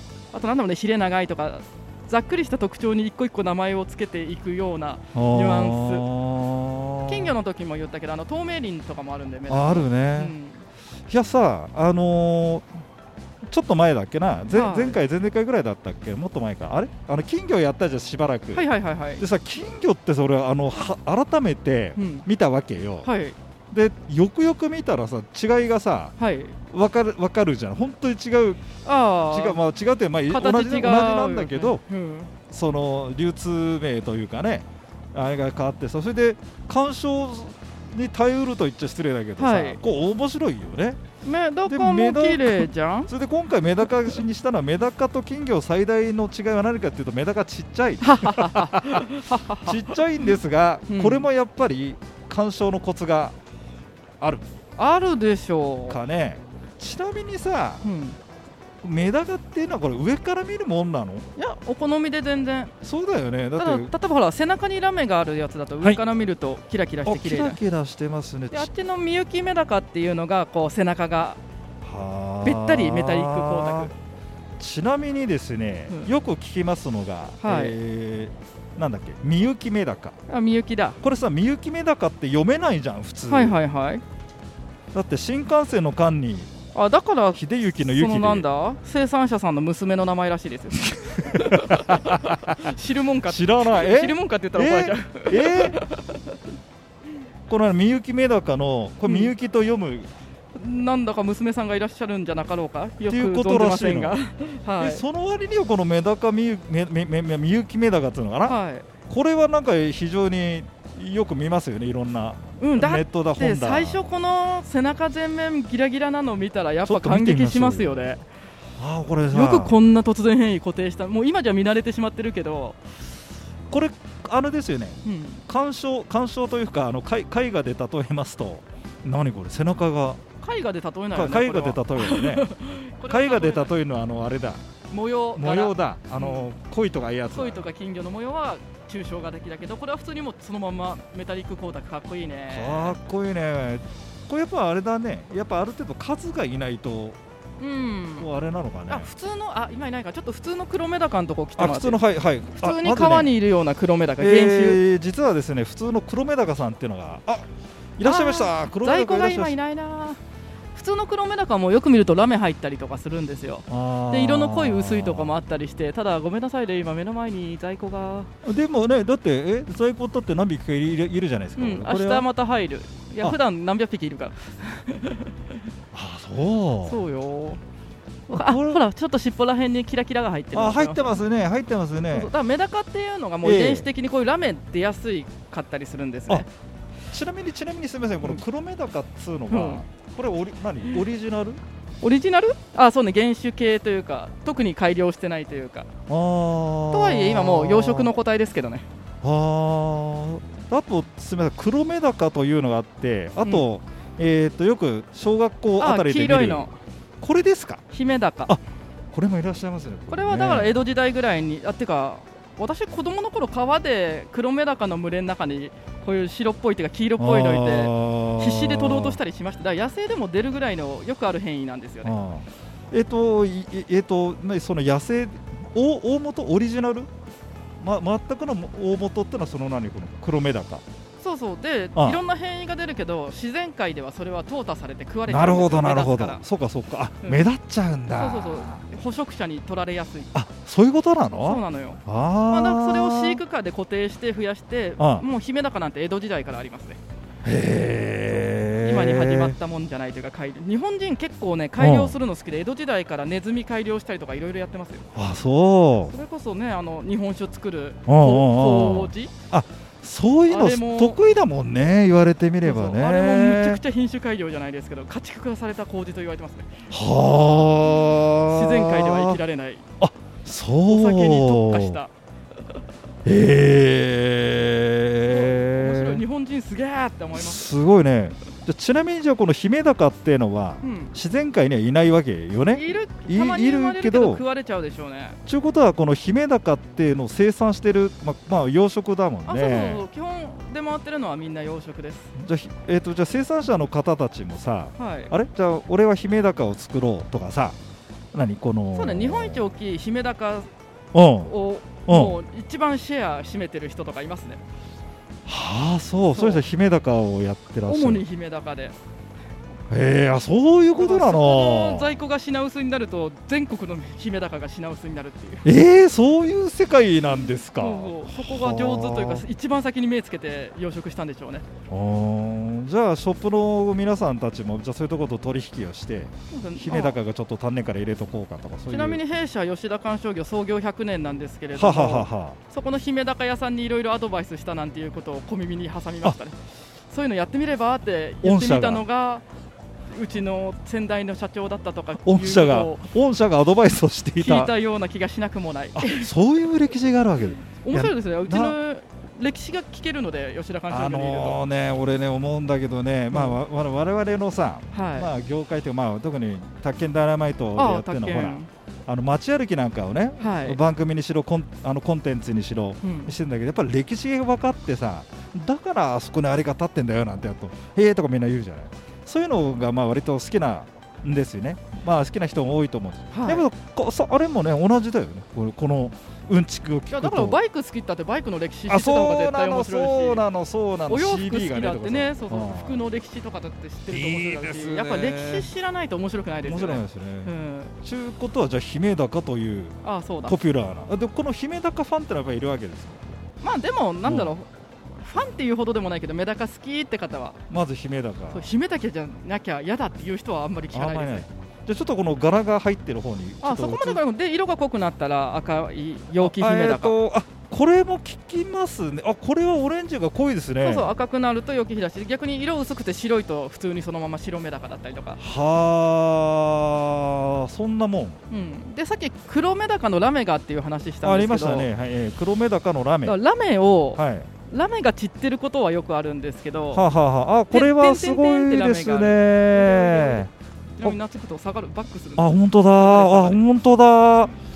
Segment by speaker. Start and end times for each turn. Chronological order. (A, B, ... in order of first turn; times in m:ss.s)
0:00.3-0:06.1 A
0:05.1-0:07.3 B
0:07.1-0:10.6 A
0:09.5-0:10.3 B
0:11.1-0:12.7 B
0:13.5-0:18.6 B
0:14.5-0:15.0 A
0:18.5-0:19.2 A
0:19.2-0:23.1 B
0:22.0-0:22.3 A
0:23.0-0:23.4 A
0:23.7-0:26.1 B
0:26.2-0:26.6 A
0:26.7-0:28.6 B
0:28.8-0:29.6 A
0:29.3-0:31.8 B
0:30.3-0:32.3 A
0:32.5-0:41.0 B
0:39.4-0:39.8 A
0:41.2-0:43.1 A
0:41.7-0:53.4 B
0:48.0-0:50.3 A
0:50.9-0:51.3 A
0:54.2-0:54.5 B
0:54.8-0:56.0 A
0:55.9-0:57.8 B
0:57.8-0:58.2 A
0:58.8-1:01.3 B
1:01.4-1:02.7 A
1:02.8-1:03.9 B
1:03.6-1:07.6 A
1:07.0-1:08.7 B
1:08.5-1:11.4 A
1:11.8-1:13.9 B
1:12.4-1:13.9 A
1:14.6-1:20.2 B
1:17.4-1:17.8 A
1:20.3-1:21.0 A
1:21.0-1:23.6 B
1:23.3-1:24.0 A
1:24.9-1:26.5 B
1:26.7-1:36.3 A
1:27.4-1:28.5 B
1:31.0-1:32.5 B
1:33.3-1:35.8 B
1:37.5-1:40.1 B
1:39.1-1:39.3 A
1:40.6-1:45.0 A
1:43.1-1:44.2 B
1:44.8-1:54.1 B
1:48.5-1:48.9 A
1:52.6-1:58.2 A
1:56.9-1:58.1 B
1:58.8-1:59.8 B
1:59.3-2:02.8 A
2:03.7-2:10.2 B
2:05.0-2:05.4 A
2:10.4-2:13.7 A
2:11.1-2:12.5 B
2:13.0-2:14.6 B
2:14.9-2:16.5 A
2:15.4-2:17.7 B
2:17.3-2:23.0 A
2:22.5-2:27.2 B
2:27.6-2:28.3 A
2:28.2-2:29.1 B
2:28.9-2:32.0 A
2:31.6-2:33.4 B
2:32.6-2:34.8 A
2:34.2-2:37.5 B
2:38.0-2:39.6 B
2:38.0-2:40.2 A
2:40.7-2:48.3 A
2:43.7-2:45.3 B
2:48.4-2:52.3 B
2:51.6-2:55.4 A
2:55.9-2:57.0 B
2:56.8-2:57.6 A
2:58.3-3:01.2 A
2:58.3-2:58.8 B
3:00.5-3:02.3 B
3:02.1-3:06.5 A
3:03.4-3:03.9 B
3:07.1-3:11.6 B
3:09.5-3:09.8 A
3:12.0-3:15.9 A
3:16.1-3:18.2 B
3:16.9-3:18.8 A
3:19.2-3:26.7 B
3:25.8-3:26.8 A
3:27.2-3:27.8 B
3:27.9-3:28.5 A
3:29.1-3:30.8 B
3:30.1-3:42.2 A
3:37.2-3:39.2 B
3:42.0-3:47.1 B
3:47.8-3:50.8 B
3:51.2-3:56.4 A
3:52.0-3:52.2 B
3:55.3-3:58.8 B
3:58.1-4:00.3 A
4:00.3-4:03.4 B
4:01.3-4:07.0 A
4:05.0-4:05.3 B
4:07.4-4:09.6 B
4:08.3-4:15.1 A
4:11.8-4:12.2 B
4:15.2-4:16.1 B
4:16.1-4:19.3 A
4:18.1-4:23.8 B
4:20.5-4:21.2 A
4:22.6-4:26.9 A
4:26.9-4:29.4 B
4:27.8-4:29.8 A
4:30.0-4:32.0 B
4:30.9-4:32.1 A
4:33.2-4:36.2 B
4:35.2-4:37.7 A
4:37.3-4:44.4 B
4:40.8-4:41.2 A
4:42.7-4:45.4 A
4:45.5-4:50.0 B
4:49.5-4:52.3 A
4:52.4-4:57.8 B
4:55.0-4:55.3 A
4:58.3-4:59.7 B
4:58.9-5:00.7 A
5:01.1-5:01.6 B
5:01.4-5:04.6 A
5:02.1-5:02.4 B
5:05.5-5:08.2 B
5:06.3-5:06.6 A
5:07.9-5:09.0 A
5:09.9-5:12.2 B
5:11.0-5:15.7 A
5:15.6-5:19.5 B
5:17.5-5:21.7 A
5:21.9-5:29.2 B
5:26.5-5:27.2 A
5:28.9-5:36.6 A
5:31.7-5:32.6 B
5:37.1-5:39.4 A
5:38.4-5:39.0 B
5:40.1-5:43.1 A
5:42.2-5:44.7 B
5:44.4-5:46.3 A
5:46.0-5:48.8 B
5:47.8-5:51.6 A
5:50.9-6:17.6 B
5:53.3-5:53.6 A
5:54.9-5:55.3 A
5:57.8-5:58.7 A
6:00.4-6:00.8 A
6:03.0-6:03.3 A
6:13.3-6:13.7 A
6:17.1-6:20.4 A
6:18.9-6:23.0 B
6:21.1-6:27.9 A
6:24.1-6:25.7 B
6:26.6-6:33.4 B
6:30.0-6:30.6 A
6:33.6-6:37.6 A
6:34.2-6:34.5 B
6:37.7-6:38.7 B
6:38.5-6:41.5 A
6:40.9-6:44.2 B
6:43.6-6:47.2 A
6:46.4-6:51.1 B
6:50.8-6:55.4 A
6:55.4-6:58.4 B
6:58.5-7:01.9 A
7:01.2-7:03.4 B
7:03.2-7:07.0 A
7:04.2-7:04.5 B
7:06.9-7:10.5 B
7:07.7-7:13.6 A
7:12.4-7:14.5 B